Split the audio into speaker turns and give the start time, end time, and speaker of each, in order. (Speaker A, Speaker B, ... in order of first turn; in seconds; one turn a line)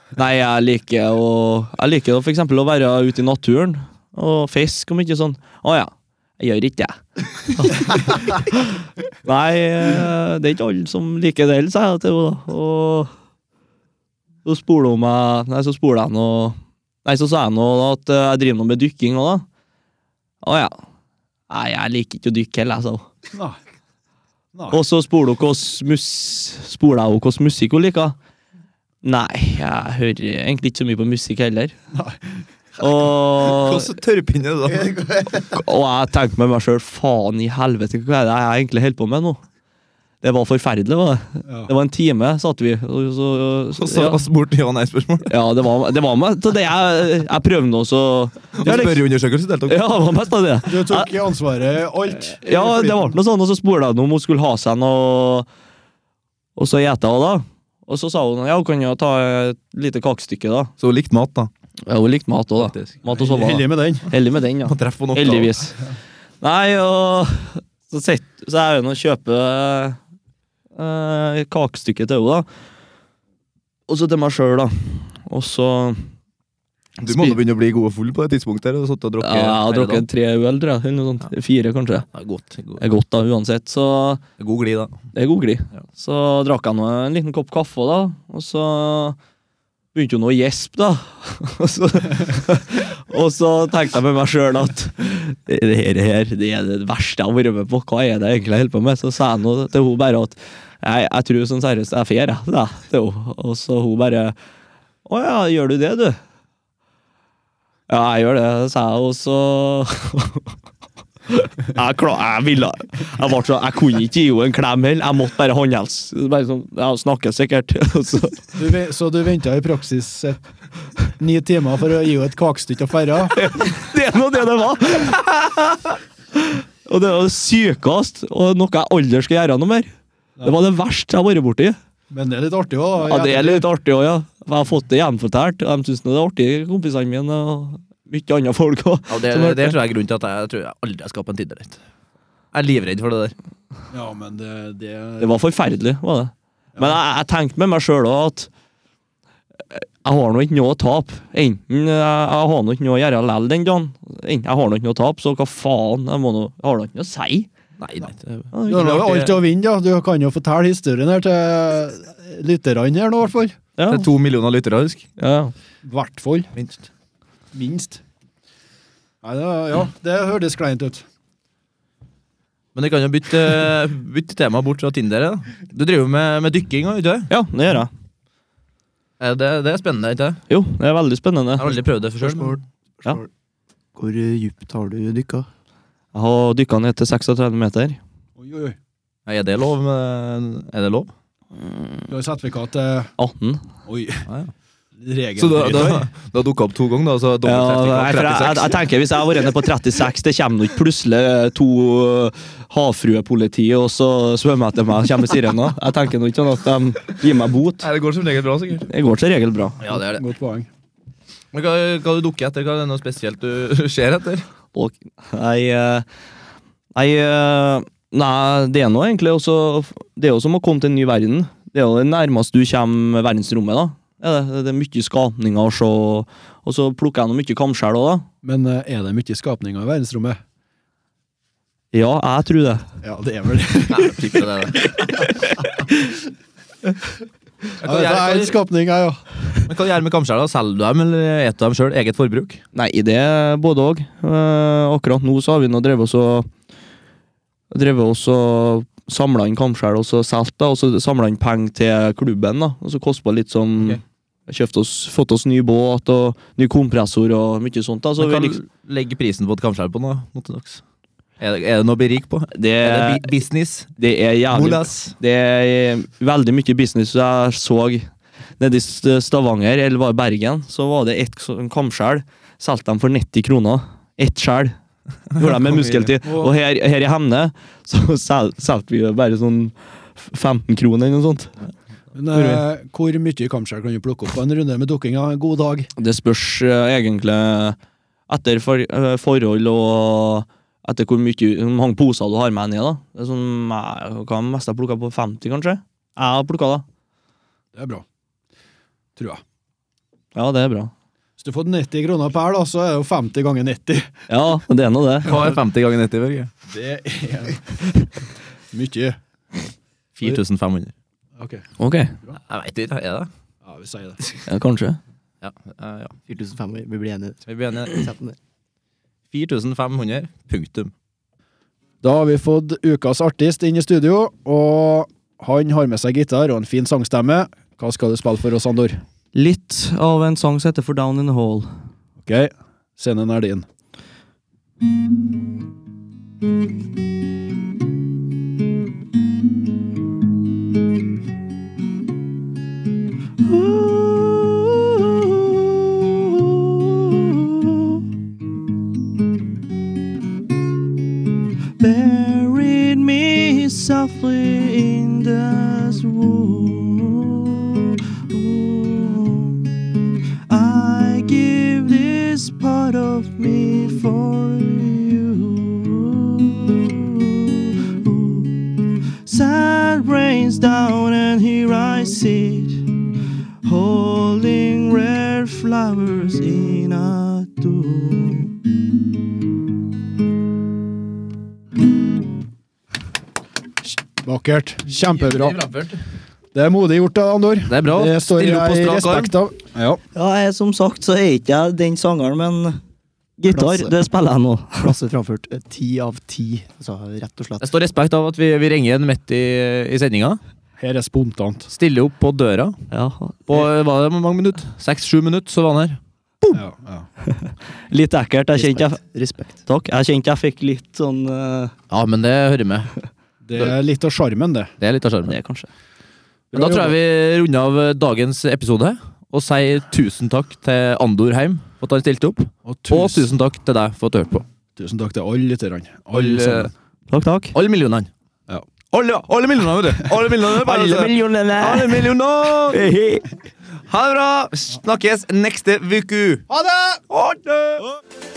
Speaker A: 0.2-13.1
Speaker A: 14.4-19.5
Speaker A: 20.4-20.8
Speaker A: 21.5-23.1
Speaker A: 24.7-28.2
Speaker A: 29.0-31.8
Speaker B: 31.9-32.2
Speaker A: 32.8-33.9
Speaker C: 33.4-35.0
Speaker A: 35.4-39.4
Speaker A: 40.2-44.2
Speaker B: 41.5-41.7
Speaker C: 43.8-45.3
Speaker A: 45.3-49.0
Speaker C: 48.6-49.8
Speaker A: 49.7-51.1
Speaker B: 50.7-53.2
Speaker A: 52.2-55.5
Speaker A: 56.6-60.7
Speaker C: 60.8-61.5
Speaker A: 61.9-65.8
Speaker C: 62.6-63.0
Speaker B: 63.2-64.1
Speaker C: 64.7-65.6
Speaker A: 66.4-70.0
Speaker A: 70.8-72.5
Speaker A: 73.9-76.1
Speaker C: 77.0-80.0
Speaker A: 77.1-77.4
Speaker A: 79.2-82.1
Speaker C: 82.1-82.8
Speaker A: 82.8-84.2
Speaker C: 84.4-85.0
Speaker A: 85.1-89.2
Speaker A: 90.0-104.4
Speaker A: 105.1-106.2
Speaker A: 107.9-110.5
Speaker A: 111.3-118.6
Speaker B: 118.6-120.4
Speaker B: 121.1-123.4
Speaker A: 123.3-129.9
Speaker A: 130.4-131.8
Speaker B: 132.1-133.7
Speaker A: 133.0-139.8
Speaker C: 139.1-141.8
Speaker C: 142.5-143.3
Speaker B: 143.9-145.3
Speaker A: 145.2-148.5
Speaker A: 149.7-157.5
Speaker C: 157.8-158.5
Speaker A: 158.5-159.4
Speaker B: 158.7-163.6
Speaker A: 163.8-164.1
Speaker C: 163.9-165.0
Speaker A: 165.2-165.5
Speaker B: 165.8-166.5
Speaker C: 166.6-166.8
Speaker B: 167.5-168.0
Speaker B: 169.2-171.1
Speaker C: 172.8-177.3
Speaker A: 177.3-177.9
Speaker C: 179.2-180.4
Speaker A: 180.5-181.7
Speaker C: 181.6-182.6
Speaker D: 182.2-183.3
Speaker D: 184.0-185.5
Speaker A: 186.1-188.0
Speaker B: 188.4-188.8
Speaker C: 189.3-191.1
Speaker B: 192.1-193.1
Speaker A: 193.2-193.6
Speaker B: 193.9-194.3
Speaker B: 195.0-196.1
Speaker C: 195.4-198.8
Speaker A: 197.5-207.9
Speaker C: 207.8-208.9
Speaker A: 208.9-209.8
Speaker C: 209.8-210.2
Speaker B: 209.8-210.7
Speaker C: 211.5-214.4
Speaker A: 214.8-216.1
Speaker A: 216.9-228.3
Speaker B: 228.4-230.4
Speaker A: 231.9-232.8
Speaker B: 233.0-234.3
Speaker C: 233.9-234.8
Speaker C: 237.8-238.6
Speaker B: 237.8-239.3
Speaker C: 239.7-242.6
Speaker A: 242.7-246.5
Speaker A: 247.7-258.6
Speaker C: 258.2-260.8
Speaker C: 261.4-263.9
Speaker A: 262.5-263.3
Speaker A: 264.0-274.8
Speaker C: 264.5-265.1
Speaker A: 275.3-281.5
Speaker B: 282.1-285.9
Speaker C: 282.3-282.6
Speaker A: 286.0-287.8
Speaker A: 288.3-296.8
Speaker B: 297.7-298.0
Speaker B: 299.2-299.4
Speaker A: 300.4-300.9
Speaker B: 301.4-304.1
Speaker A: 304.3-305.5
Speaker C: 305.2-306.5
Speaker B: 306.7-308.1
Speaker B: 308.7-309.2
Speaker C: 310.2-310.9
Speaker B: 311.4-311.7
Speaker A: 311.8-312.1
Speaker C: 312.5-313.3
Speaker B: 313.6-314.4
Speaker A: 314.5-315.0
Speaker C: 315.4-316.1
Speaker D: 316.3-318.4
Speaker C: 317.5-318.0
Speaker C: 319.3-320.9
Speaker B: 322.0-329.0
Speaker A: 329.3-331.7
Speaker B: 332.2-333.7
Speaker A: 343.4-348.0
Speaker A: 351.8-359.8
Speaker A: 360.5-372.9
Speaker A: 373.6-378.6
Speaker B: 384.2-385.6
Speaker C: 385.2-386.0
Speaker B: 386.5-390.0
Speaker C: 387.7-389.3
Speaker A: 390.1-392.8
Speaker A: 393.4-395.0
Speaker D: 393.5-393.9
Speaker D: 394.8-397.6
Speaker C: 397.6-400.4
Speaker B: 400.8-401.7
Speaker C: 401.7-402.8
Speaker A: 402.9-403.4
Speaker C: 403.5-406.6
Speaker B: 406.5-407.1
Speaker A: 407.3-409.0
Speaker D: 408.5-409.6
Speaker A: 409.7-411.8
Speaker C: 411.9-412.9
Speaker B: 413.4-414.7
Speaker C: 414.8-415.4
Speaker A: 415.2-415.7
Speaker B: 416.5-417.0
Speaker C: 416.5-424.4
Speaker B: 422.6-423.3
Speaker B: 424.8-426.7
Speaker C: 426.1-426.7
Speaker A: 427.1-427.6
Speaker C: 427.5-428.1
Speaker C: 428.9-432.8
Speaker A: 430.4-433.3
Speaker C: 433.9-436.4
Speaker B: 436.5-437.0
Speaker C: 437.1-437.9